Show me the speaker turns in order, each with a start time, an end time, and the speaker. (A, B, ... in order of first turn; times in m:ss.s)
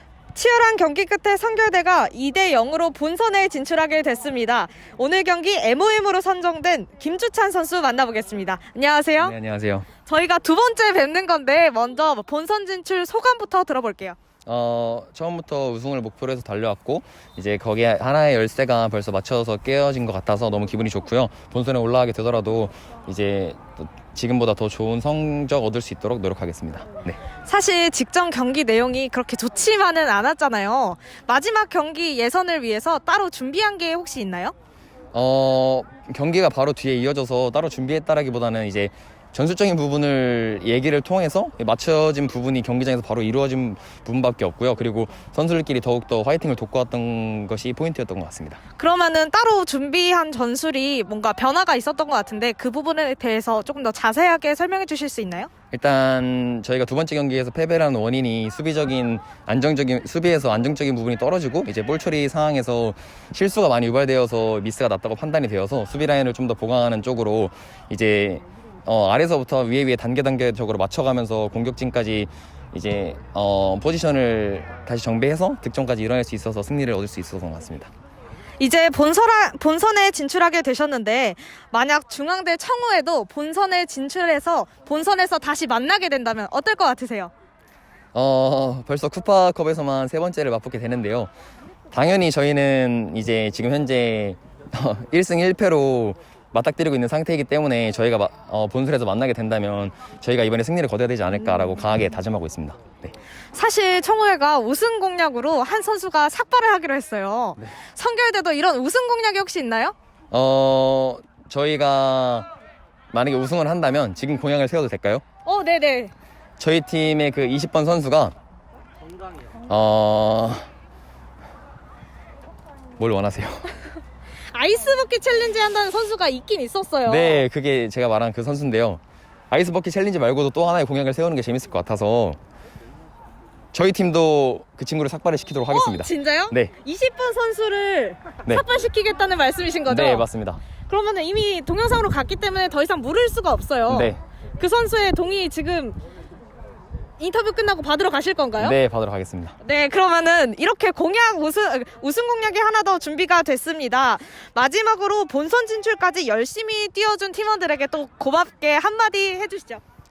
0:00.3-0:09.3 A
0:09.2-0:09.9 B
0:10.0-0:14.2 A
0:14.4-0:27.2 B
0:27.4-0:34.5 A
0:35.1-0:48.6 B
0:48.8-0:55.5 A
0:55.7-1:17.9 B
1:18.6-1:27.3 A
1:28.1-1:31.3 B
1:31.9-1:43.1 B
1:41.4-1:41.9 A
1:43.5-1:49.9 A
1:50.3-1:52.5 B
1:53.1-1:55.2 B
1:55.4-1:56.1 A
1:56.6-1:58.3 B
1:59.7-2:00.7 B
2:03.0-2:03.7 B
2:04.5-2:07.4 A
2:07.0-2:12.4 B
2:13.7-2:16.7 B
2:15.7-2:20.3 A
2:19.9-2:20.6 B
2:20.8-2:26.0 A
2:23.9-2:24.2 B
2:27.2-2:28.8 A
2:28.6-2:29.6 B
2:29.6-2:39.8 A